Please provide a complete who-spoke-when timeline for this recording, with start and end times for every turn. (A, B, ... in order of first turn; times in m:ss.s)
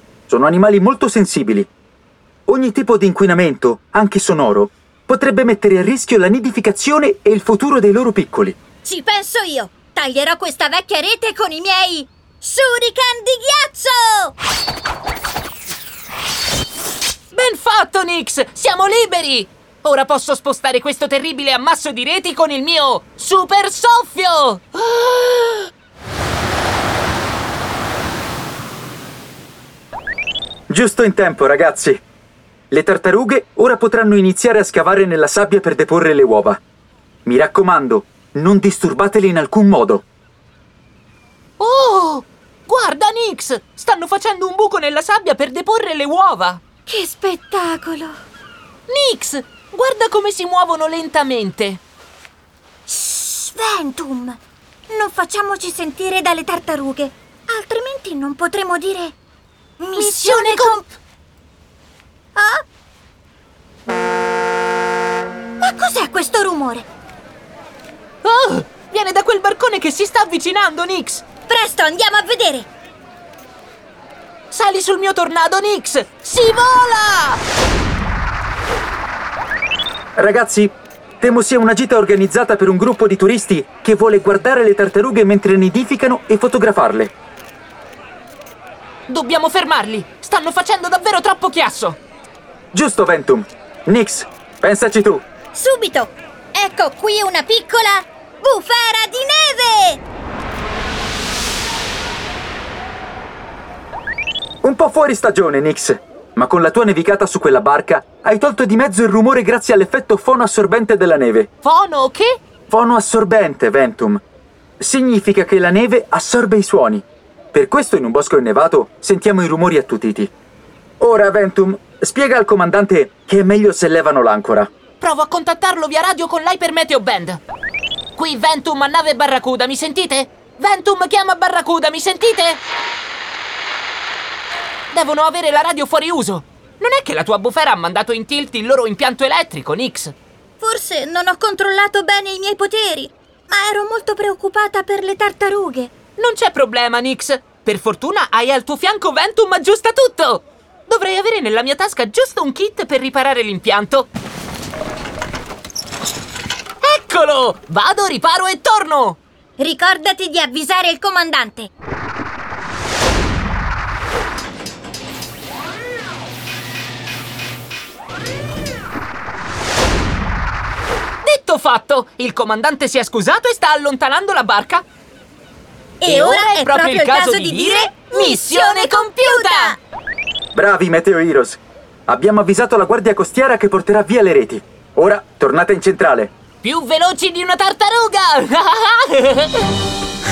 0:00.3-0:01.7 A
0:02.5-0:08.6 A
0:08.8-0:14.3 B
0:17.3-0:25.7 C
0:30.7-0:32.0 A
0:32.7-0:36.6 A
0:37.2-0:40.0 A
0:41.6-0:46.6 C
0:46.9-0:48.2 B
0:48.9-0:51.8 C
0:52.9-0:59.2 B
0:59.8-1:00.8 B
1:00.0-1:00.9 C
1:02.4-1:02.6 B
1:05.6-1:06.9 B
1:08.2-1:11.2 C
1:11.5-1:12.7 B
1:14.5-1:17.4 C
1:20.2-1:27.1 A
1:29.1-1:32.0 C
1:32.7-1:35.2 A
1:35.5-1:40.0 B
1:44.6-1:51.5 A
1:51.6-1:52.4 C
1:52.7-1:54.2 A
1:54.8-2:00.3 A
2:01.0-2:04.7 A
2:05.0-2:07.4 C
2:08.2-2:12.6 C
2:14.9-2:20.2 C
2:20.6-2:25.9 B
2:26.2-2:34.1 C
2:36.8-2:39.2 C
2:39.6-2:41.7 B
2:51.2-2:54.8 C
2:56.0-2:59.8 B
2:56.0-2:59.8 C
3:00.5-3:06.3 A
3:06.6-3:09.7 C